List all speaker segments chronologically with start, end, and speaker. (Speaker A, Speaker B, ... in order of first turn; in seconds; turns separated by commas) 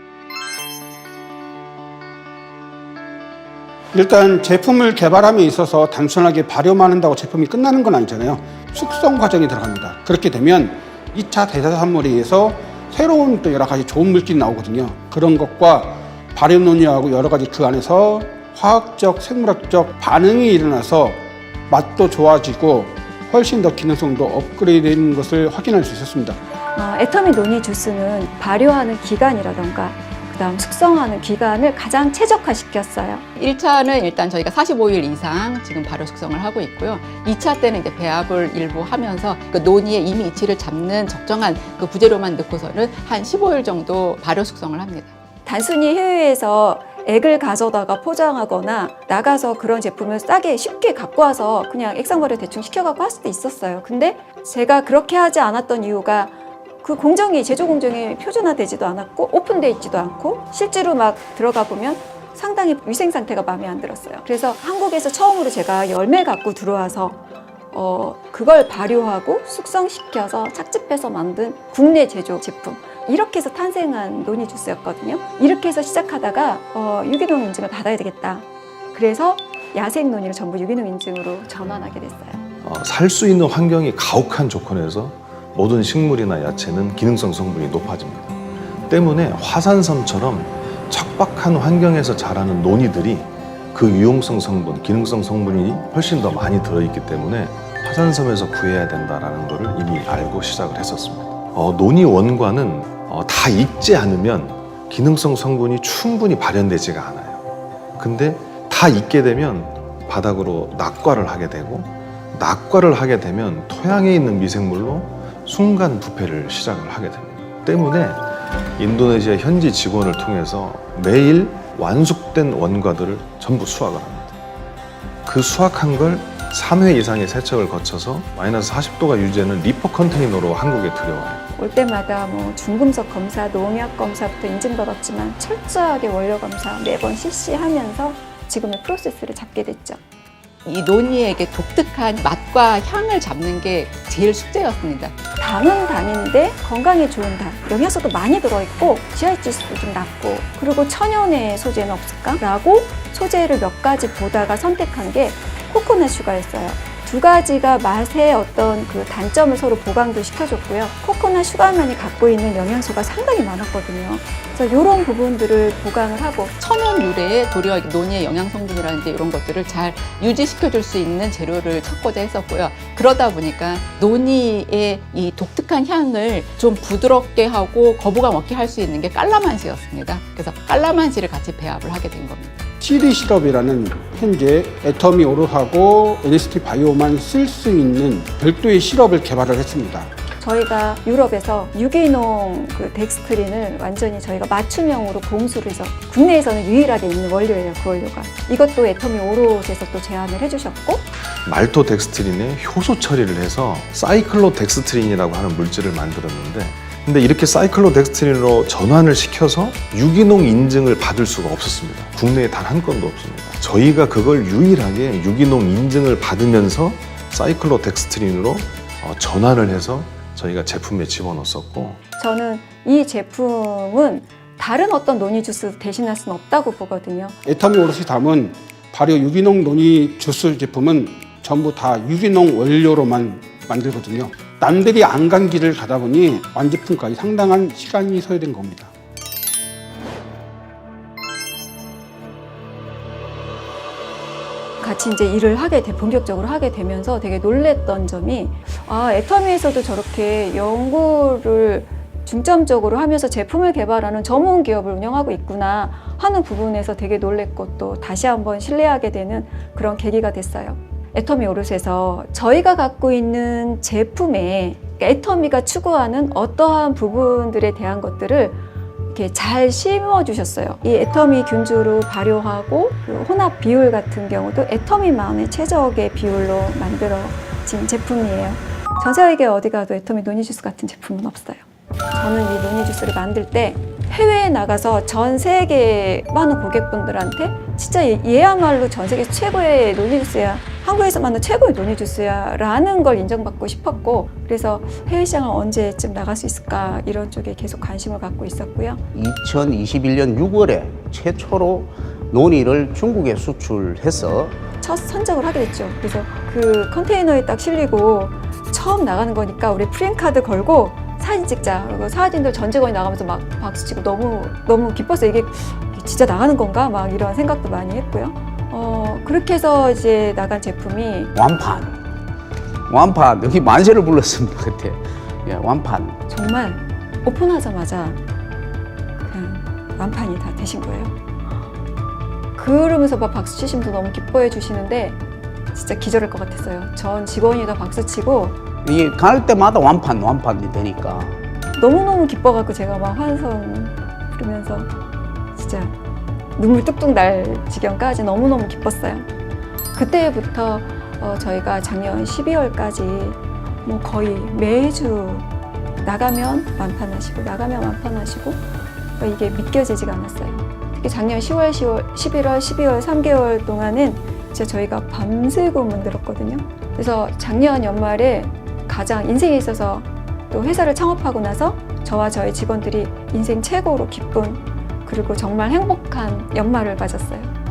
Speaker A: 3.9-26.4, Speaker B: 26.7-33.2, Speaker C: 33.4-45.1, Speaker B: 45.5-67.2, Speaker B: 67.7-82.4, Speaker D: 82.6-107.5, Speaker D: 108.0-118.2, Speaker D: 118.8-124.3, Speaker D: 125.2-131.4, Speaker B: 131.5-140.0, Speaker C: 140.6-145.1, Speaker B: 145.4-166.5, Speaker C: 166.6-182.5, Speaker A: 182.8-190.1, Speaker B: 190.4-201.0, Speaker D: 201.4-222.0, Speaker B: 222.2-227.3, Speaker A: 227.4-238.9, Speaker B: 244.8-268.6, Speaker B: 269.1-281.6, Speaker B: 282.1-299.0, Speaker E: 299.1-304.6, Speaker B: 304.8-321.3, Speaker E: 321.3-322.0, Speaker E: 322.9-326.2, Speaker B: 326.3-328.2, Speaker B: 329.2-331.1, Speaker B: 332.6-335.2, Speaker B: 335.7-338.6, Speaker E: 338.8-341.4, Speaker B: 341.8-344.9, Speaker B: 345.5-345.9, Speaker B: 346.6-349.2, Speaker B: 349.9-358.6, Speaker B: 359.2-377.5